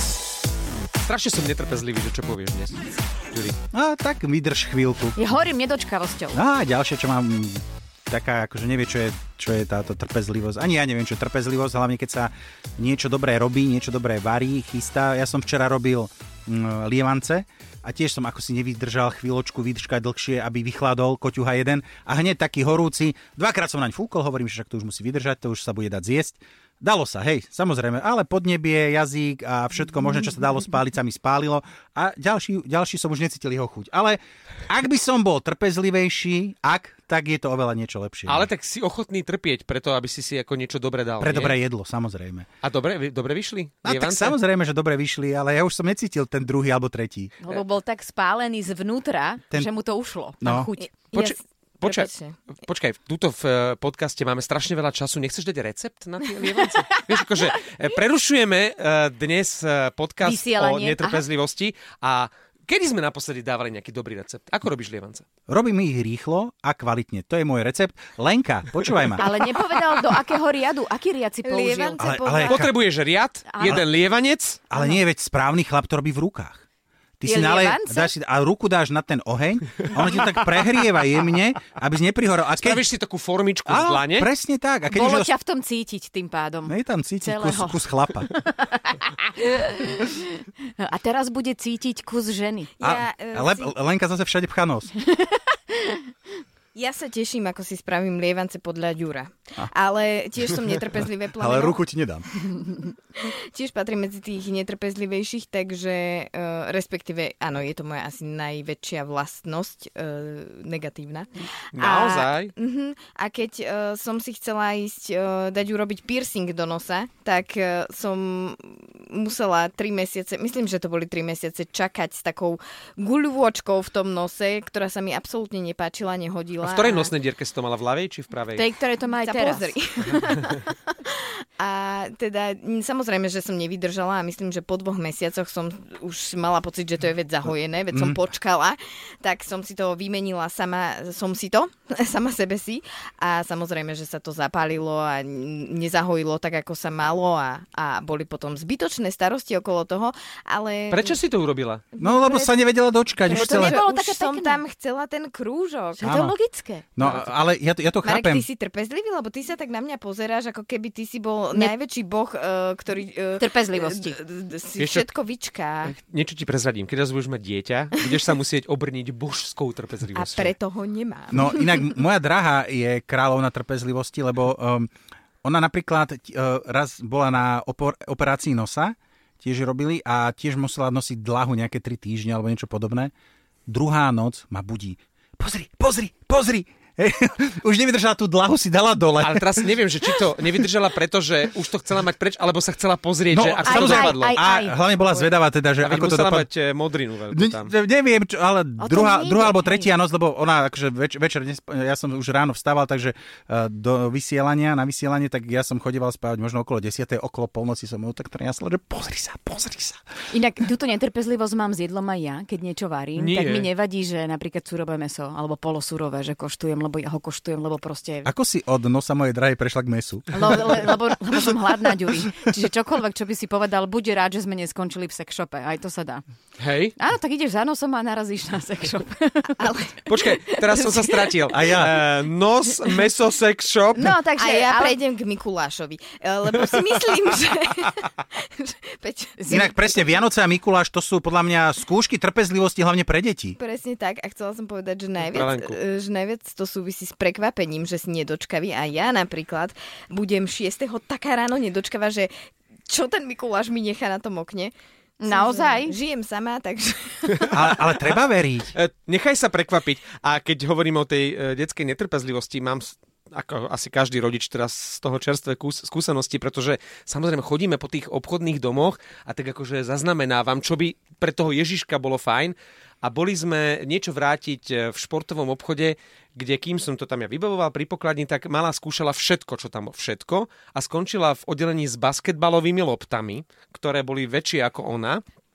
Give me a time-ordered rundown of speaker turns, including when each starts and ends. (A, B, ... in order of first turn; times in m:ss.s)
0:01.0-0:02.8 A
0:03.7-0:05.3 B
0:05.2-0:06.4 C
0:06.3-0:38.5 B
0:38.3-0:41.6 A
0:41.2-0:42.5 B
0:42.6-0:44.4 A
0:43.8-0:47.3 B
0:47.4-0:51.3 C
0:50.4-0:50.7 B
0:51.0-0:52.4 D
0:51.8-0:52.1 A
0:52.6-1:05.2 A
1:00.2-1:01.3 C
1:05.5-1:09.3 B
1:09.2-1:12.0 C
1:11.4-1:12.6 D
1:12.0-1:12.7 B
1:12.5-1:14.6 A
1:13.5-1:13.8 C
1:14.7-1:16.6 B
1:17.2-1:22.9 B
1:17.2-1:18.1 C
1:22.5-1:24.3 A
1:23.7-1:25.3 B
1:24.9-1:32.7 C
1:26.7-1:28.3 B
1:32.8-1:33.7 D
1:32.8-1:34.9 B
1:35.1-1:36.0 C
1:36.8-1:41.8 D
1:41.4-1:42.3 B
1:43.1-2:07.1 D
1:51.7-1:52.5 A
2:06.6-2:08.7 A
2:08.5-2:09.7 C
2:09.2-2:10.7 D
2:11.6-2:31.2 D
2:17.9-2:18.2 B
2:30.9-2:31.8 A
2:31.9-2:32.7 D
2:32.0-2:33.8 B
2:33.3-2:36.2 D
2:33.3-2:34.6 C
2:36.0-2:36.8 C
2:36.0-2:36.3 B
2:37.0-2:38.5 B
2:37.0-2:37.3 A
2:38.0-2:45.9 D
2:43.4-2:44.2 C
2:44.8-2:45.1 A
2:45.8-2:50.6 A
2:50.1-2:51.9 D
2:51.3-2:54.9 B
2:55.4-3:03.1 B
3:03.7-3:10.1 B
3:09.2-3:14.3 A
3:13.3-3:16.5 B
3:13.6-3:15.3 C
3:15.8-3:17.7 A
3:17.3-3:30.0 B
3:18.8-3:19.9 C
3:30.3-3:38.3 C
3:33.2-3:33.7 A
3:38.2-3:40.9 B
3:40.3-3:46.2 C
3:46.6-3:47.0 A
3:47.0-3:49.7 C
3:49.6-3:50.4 D
3:50.1-3:54.2 A
3:51.5-3:52.0 B
3:54.0-3:55.0 C
3:54.4-4:00.0 D
3:59.4-3:59.7 C
3:59.5-4:03.6 B
4:03.6-4:12.3 D
4:05.2-4:05.8 A
4:12.9-4:14.7 D
4:15.2-4:16.0 C
4:15.2-4:17.7 D
4:17.3-4:18.2 A
4:17.5-4:18.7 B
4:18.7-4:45.2 A